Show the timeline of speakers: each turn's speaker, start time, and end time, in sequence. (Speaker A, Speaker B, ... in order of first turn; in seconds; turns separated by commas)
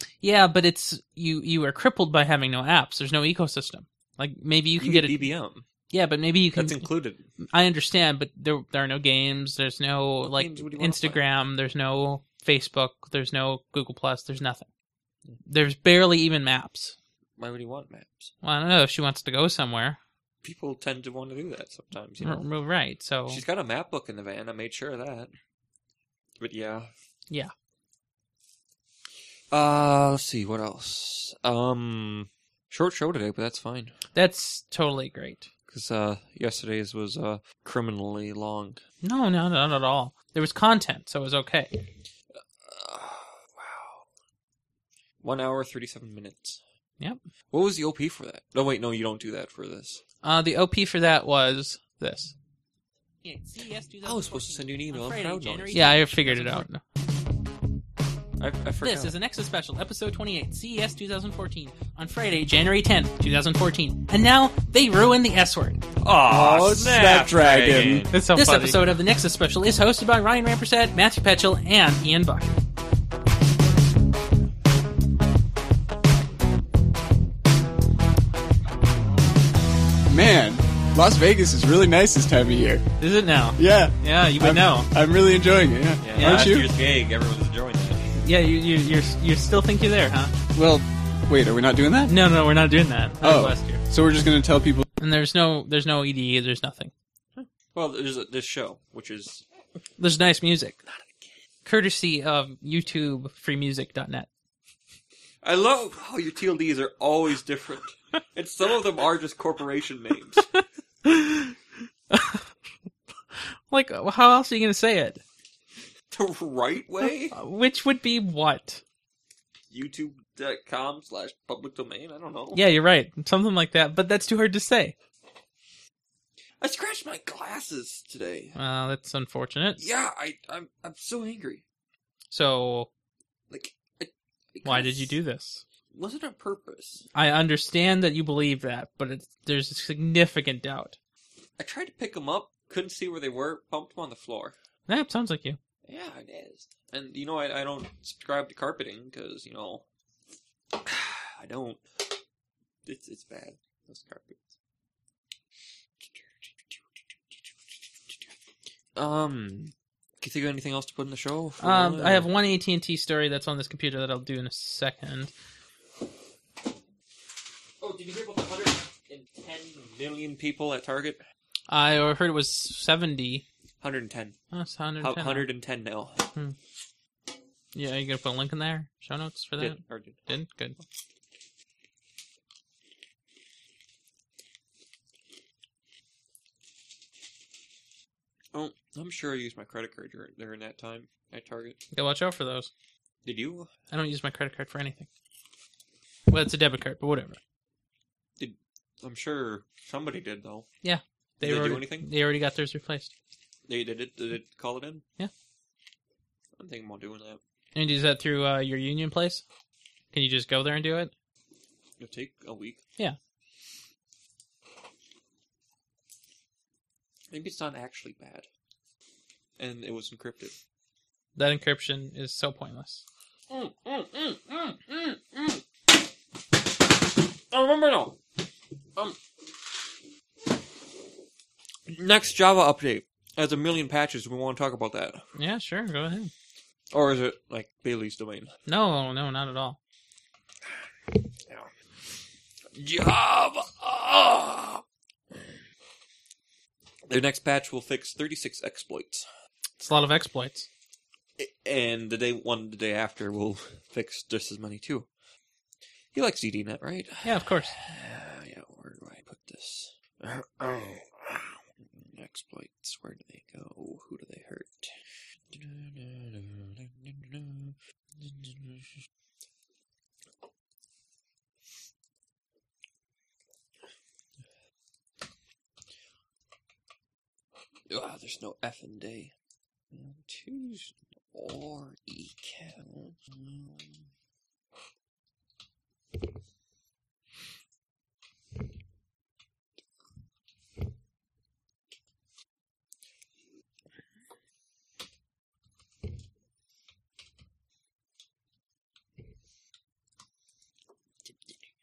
Speaker A: 0.2-5.3, Speaker B: 4.8-5.6, Speaker A: 5.9-6.8, Speaker B: 6.5-7.2, Speaker A: 7.5-14.7, Speaker B: 10.3-11.2, Speaker A: 15.4-16.9, Speaker B: 17.4-18.3, Speaker A: 18.4-20.0, Speaker B: 20.4-22.4, Speaker A: 22.2-23.4, Speaker B: 23.3-25.3, Speaker B: 26.4-26.9, Speaker B: 29.5-33.9, Speaker A: 34.1-35.5, Speaker B: 35.7-38.8, Speaker A: 39.0-41.8, Speaker B: 42.6-44.0, Speaker B: 45.2-46.6, Speaker B: 47.5-50.0, Speaker A: 50.2-52.3, Speaker A: 53.2-56.8, Speaker B: 54.0-56.7, Speaker B: 58.4-59.1, Speaker A: 58.8-65.8, Speaker B: 66.0-68.9, Speaker C: 66.2-68.1, Speaker A: 68.1-72.5, Speaker C: 80.0-82.8, Speaker A: 83.0-84.9, Speaker C: 83.5-86.7, Speaker B: 86.0-88.1, Speaker A: 86.2-86.5, Speaker A: 88.2-90.3, Speaker C: 90.5-92.2, Speaker A: 92.1-93.8, Speaker C: 93.2-94.8, Speaker A: 95.0-96.9, Speaker B: 97.3-99.4, Speaker A: 100.0-100.8, Speaker B: 100.9-101.3, Speaker A: 101.6-104.3, Speaker B: 105.4-110.5, Speaker A: 110.5-111.5, Speaker A: 112.1-112.4, Speaker A: 113.3-115.2, Speaker B: 116.1-117.3, Speaker A: 117.3-118.8, Speaker B: 119.7-122.6, Speaker A: 122.5-124.9, Speaker B: 126.6-128.6, Speaker A: 128.6-129.8, Speaker B: 129.8-131.6, Speaker A: 132.3-132.9, Speaker B: 133.5-135.2, Speaker A: 134.6-135.6, Speaker B: 135.9-137.0, Speaker A: 137.1-141.0, Speaker B: 141.6-144.5, Speaker A: 144.9-145.6, Speaker B: 145.8-149.8, Speaker B: 150.7-152.1, Speaker B: 152.8-154.5, Speaker B: 156.0-156.8, Speaker B: 158.9-162.3, Speaker A: 161.6-165.3, Speaker B: 167.8-171.2, Speaker A: 171.7-173.4, Speaker B: 173.8-174.4, Speaker A: 174.5-175.5, Speaker B: 175.0-176.3, Speaker A: 177.7-180.8, Speaker B: 179.6-180.2, Speaker B: 188.5-191.8, Speaker A: 191.9-192.7, Speaker B: 193.2-193.7, Speaker A: 193.9-195.1, Speaker A: 196.3-197.4, Speaker B: 198.4-200.7, Speaker A: 200.8-203.1, Speaker B: 201.4-202.1, Speaker B: 203.7-205.0, Speaker B: 206.6-207.4, Speaker A: 207.7-209.4, Speaker A: 210.1-211.1, Speaker B: 212.0-212.8, Speaker B: 217.3-218.5, Speaker B: 219.6-220.6, Speaker A: 221.3-223.0, Speaker B: 223.5-225.6, Speaker B: 227.5-228.2, Speaker B: 231.9-235.2, Speaker A: 235.3-236.3, Speaker B: 236.9-238.5, Speaker A: 238.7-239.8, Speaker B: 242.7-245.6, Speaker B: 247.1-249.2, Speaker A: 249.8-250.7, Speaker B: 251.4-255.1, Speaker B: 256.1-264.9, Speaker A: 257.2-257.7, Speaker B: 265.5-268.9, Speaker B: 277.9-279.3, Speaker B: 279.9-284.0